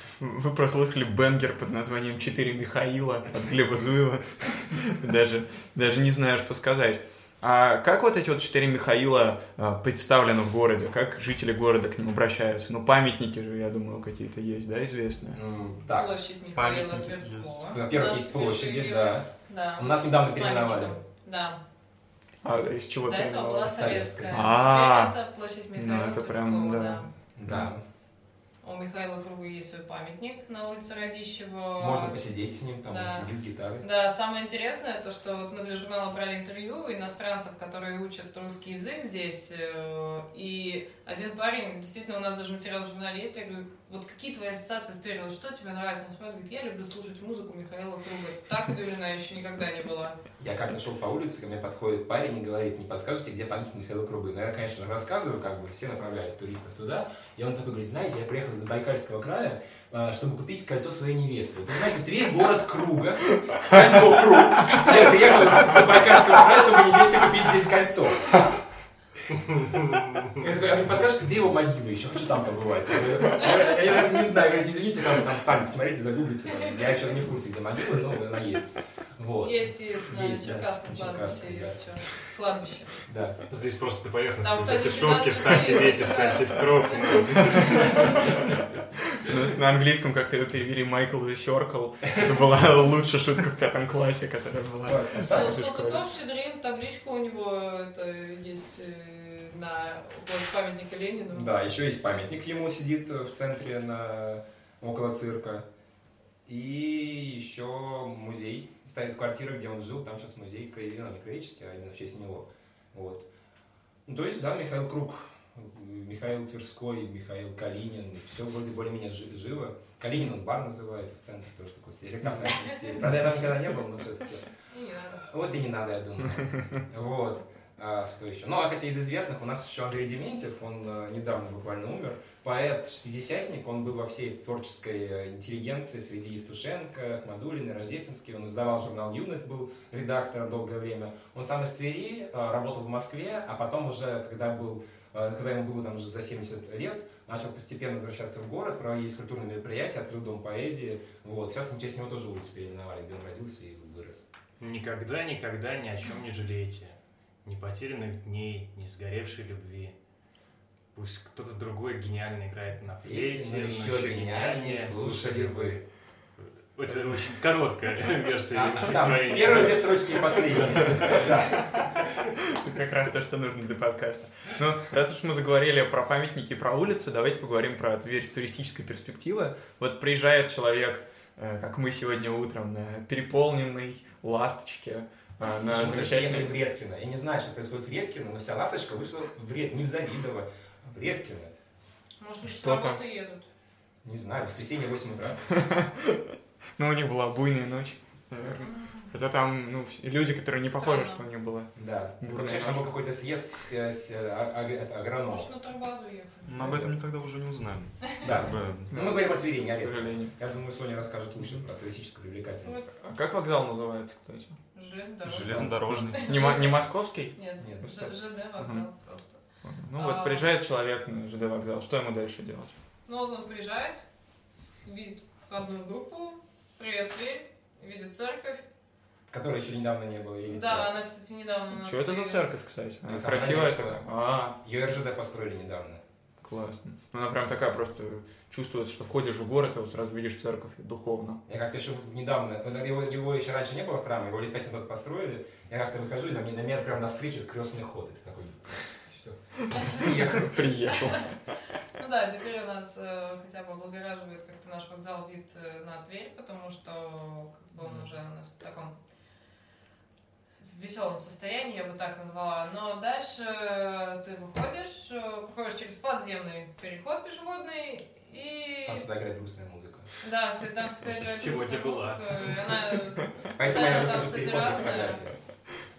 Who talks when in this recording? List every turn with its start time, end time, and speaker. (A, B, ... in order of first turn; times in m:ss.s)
0:00.2-0:15.4 A
0:15.3-0:16.1 B
0:15.9-0:21.6 C
0:16.5-0:17.8 D
0:17.7-0:21.0 B
0:22.4-0:25.2 A
0:23.0-0:27.1 C
0:23.6-0:24.5 B
0:25.7-0:27.7 A
0:27.4-0:27.8 B
0:28.6-0:32.2 C
0:31.8-0:33.8 B
0:32.8-0:50.2 C
0:50.4-1:08.4 B
1:09.8-1:10.2 E
1:10.4-1:21.8 B
1:19.4-1:23.0 C
1:23.0-1:23.4 B
1:23.5-1:28.6 E
1:24.4-1:28.2 C
1:29.1-1:36.0 A
1:34.8-1:35.6 B
1:35.2-1:41.5 C
1:41.3-1:45.6 B
1:46.4-1:53.3 B
1:54.0-2:04.4 B
2:04.7-2:05.3 C
2:05.2-2:34.3 B
2:34.6-2:39.9 E
2:40.9-2:51.9 E
2:43.0-2:45.8 B
2:48.5-2:51.6 B
2:52.5-3:06.5 A
3:05.6-3:11.5 B
3:12.2-3:13.5 C
3:12.4-3:13.0 A
3:14.0-3:15.5 B
3:15.5-3:22.9 A
3:18.6-3:19.1 C
3:20.7-3:21.2 C
3:21.8-3:25.5 B
3:25.3-3:26.7 C
3:26.4-3:28.9 D
3:26.6-3:26.9 B
3:28.2-3:32.9 B
3:28.9-3:30.3 A
3:32.6-3:33.0 C
3:33.0-3:34.6 A
3:34.7-3:39.4 C
3:35.2-3:36.3 D
3:36.1-3:38.8 A
3:39.6-3:42.7 A
3:40.0-3:40.4 C
3:43.0-3:44.0 C
3:44.8-3:48.6 C
3:49.3-3:50.9 B
3:50.5-3:52.7 C
3:51.8-3:54.6 A
3:53.1-3:54.0 B
3:54.6-3:56.0 B
3:56.4-4:01.4 A
4:01.5-4:10.6 B
4:09.8-4:10.1 C
4:10.0-4:11.4 A
4:10.9-4:11.3 C
4:11.9-4:18.9 C
4:20.6-4:29.0 C
4:28.9-4:30.2 B
4:30.2-4:35.2 C
4:31.0-4:32.8 E
4:33.5-4:35.4 B